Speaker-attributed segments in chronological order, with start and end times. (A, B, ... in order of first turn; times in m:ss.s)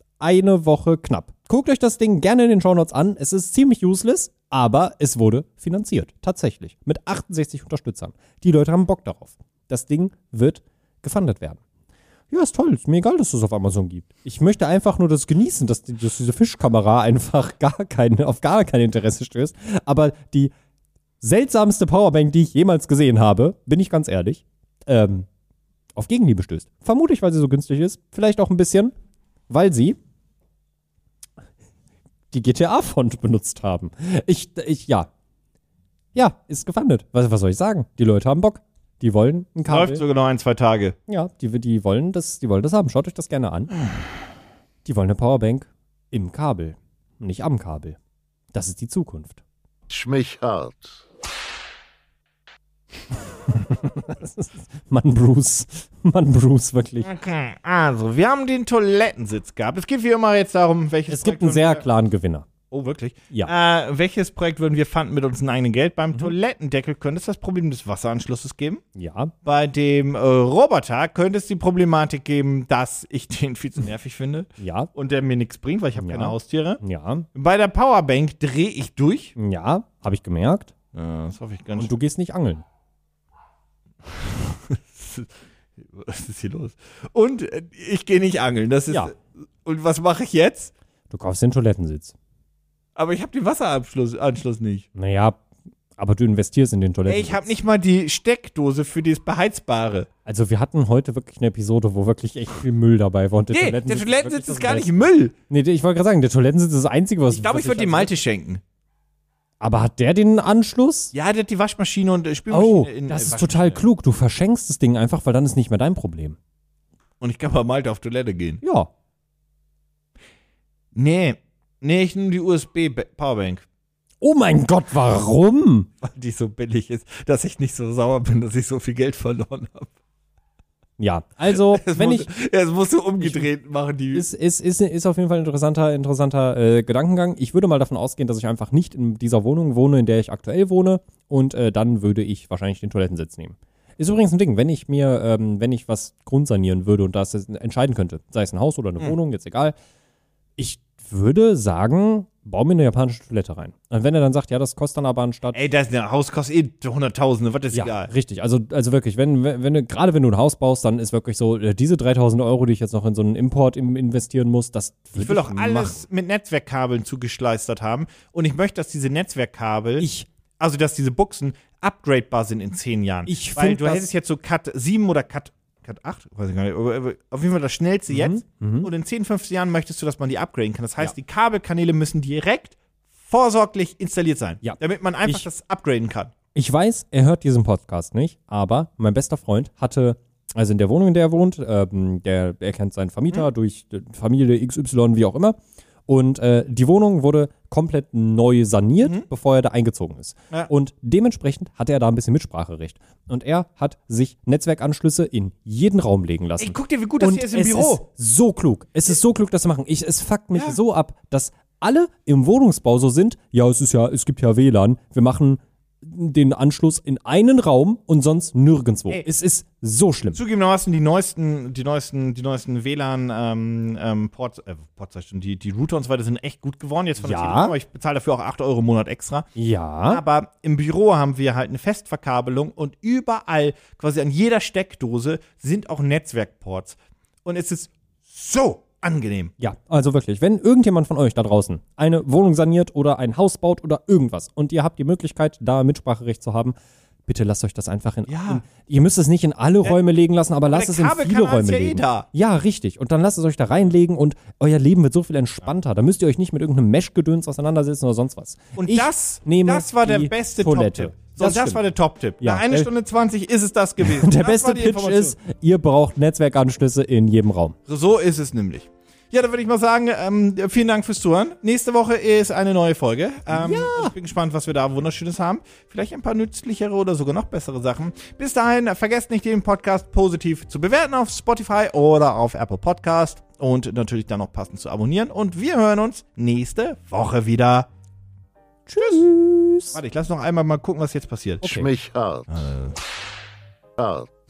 0:00.2-0:11.6 A
0:12.3-0:20.5 A
0:21.2-0:25.3 A
0:25.9-0:28.9 A
0:29.5-0:30.0 A
0:32.3-0:35.1 A
0:36.1-0:40.0 A
0:39.7-0:41.0 B
0:41.1-0:43.7 A
0:44.8-0:48.0 A
0:48.5-0:49.4 A
0:49.9-0:51.0 C
0:53.4-0:57.1 A
0:57.0-1:01.8 B
1:01.1-1:02.5 A
1:02.7-1:08.8 B
1:08.9-1:09.3 A
1:09.4-1:16.8 B
1:14.6-1:14.9 A
1:16.0-1:17.3 A
1:17.3-1:19.3 B
1:19.4-1:20.7 A
1:20.9-1:21.9 B
1:21.8-1:22.6 A
1:24.0-1:30.7 B
1:31.1-1:32.2 A
1:33.0-1:34.9 B
1:34.9-1:35.4 A
1:36.0-1:37.5 A
1:37.1-1:40.1 B
1:40.2-1:48.1 A
1:43.5-1:45.3 B
1:47.3-1:48.6 B
1:49.6-1:51.1 A
1:51.1-1:53.8 B
1:52.5-1:56.4 A
1:57.2-1:58.6 B
1:58.6-1:58.9 A
2:00.9-2:03.6 B
2:04.2-2:05.9 A
2:06.0-2:09.9 B
2:11.0-2:12.3 A
2:11.5-2:14.3 B
2:13.2-2:13.5 A
2:14.1-2:29.8 A
2:30.6-2:35.6 A
2:35.5-2:38.1 B
2:37.7-2:46.0 A
2:45.2-2:50.1 B
2:50.0-2:50.3 A
2:50.6-3:06.3 B
2:53.3-2:54.1 A
2:58.1-2:58.9 A
3:04.6-3:05.4 A
3:06.5-3:40.4 A
3:26.6-3:28.0 B
3:40.3-3:49.5 B
3:47.2-3:47.7 A
3:49.6-3:50.2 A
3:50.1-3:59.5 B
3:59.6-4:06.7 A
4:07.2-4:21.8 A
4:08.3-4:08.6 B
4:10.7-4:12.3 B
4:18.8-4:25.4 B
4:22.4-4:22.9 A
4:24.0-4:27.8 A
4:27.9-4:47.9 B
4:33.5-4:34.1 A
4:48.9-4:50.0 A
4:49.0-4:49.2 B
4:49.9-4:51.6 B
4:51.6-4:51.9 A
4:51.6-4:52.8 C
4:52.5-4:52.9 B
4:54.0-4:54.3 C